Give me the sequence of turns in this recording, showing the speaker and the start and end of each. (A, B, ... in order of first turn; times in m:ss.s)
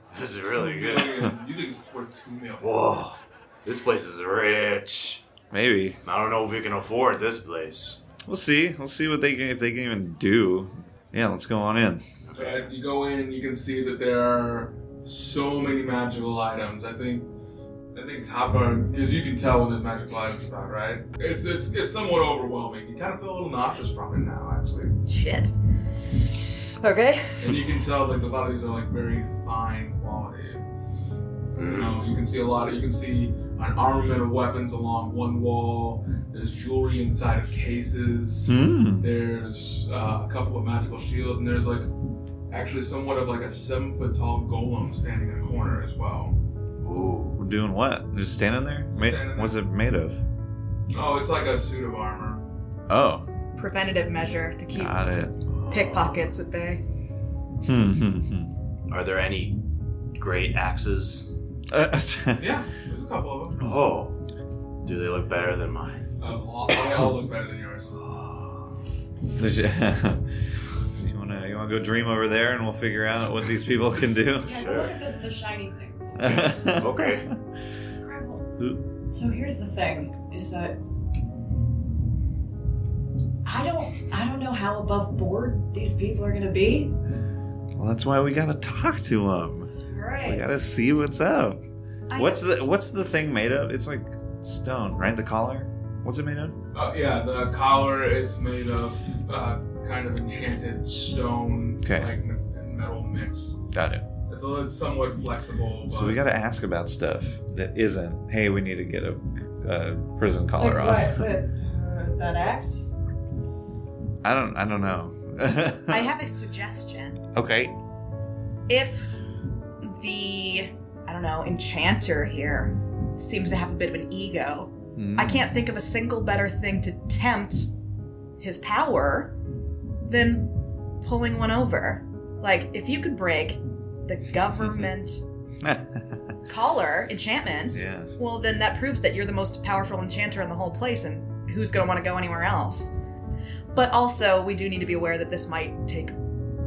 0:00.1-0:01.3 A
0:00.6-0:02.8 B
0:02.6-0:05.2 A
0:05.5-0:06.0 C
0:06.0-0:08.0 A
0:08.2-0:12.0 C
0:12.2-0:12.7 A
0:12.4-0:17.3 B
0:17.9-0:24.9 B
0:25.1-0:25.5 D
0:26.8-0:27.4 D
0:27.4-0:30.6 B
0:31.6-0:32.0 A
0:31.6-0:41.9 B
0:38.4-0:39.1 C
0:42.5-0:46.4 B
0:46.8-0:47.4 A
0:47.4-0:50.2 C
0:48.9-0:49.5 B
0:50.9-0:52.4 B
0:52.9-0:53.2 C
0:53.6-0:55.0 D
0:54.7-0:55.4 C
0:55.5-0:56.2 A
0:55.7-0:56.8 D
0:57.6-0:58.5 C
0:58.9-0:59.6 A
1:00.1-1:01.3 A
1:01.7-1:02.6 C
1:02.4-1:03.6 B
1:03.6-1:04.2 A
1:04.8-1:06.0 A
1:06.2-1:08.0 B
1:08.0-1:08.6 A
1:09.4-1:10.2 C
1:11.0-1:14.8 C
1:14.4-1:16.4 E
1:14.6-1:14.9 A
1:16.2-1:17.2 C
1:16.2-1:17.3 A
1:18.0-1:18.5 E
1:18.6-1:18.8 C
1:19.1-1:20.8 E
1:23.4-1:26.9 E
1:27.7-1:29.7 C
1:29.9-1:30.5 E
1:30.2-1:31.6 C
1:32.1-1:32.4 D
1:32.1-1:36.6 C
1:36.7-1:43.6 B
1:41.8-1:42.1 C
1:43.7-1:44.0 C
1:44.3-1:46.2 B
1:45.8-1:51.3 C
1:50.6-1:52.8 E
1:54.2-1:56.1 C
1:55.9-1:57.2 D
1:57.3-1:57.7 C
1:58.7-1:59.1 D
1:59.8-2:07.7 D
2:05.0-2:05.5 C
2:08.4-2:09.4 D
2:10.0-2:15.2 D
2:15.6-2:16.2 C
2:16.5-2:22.9 D
2:17.7-2:18.1 C
2:23.7-2:26.2 D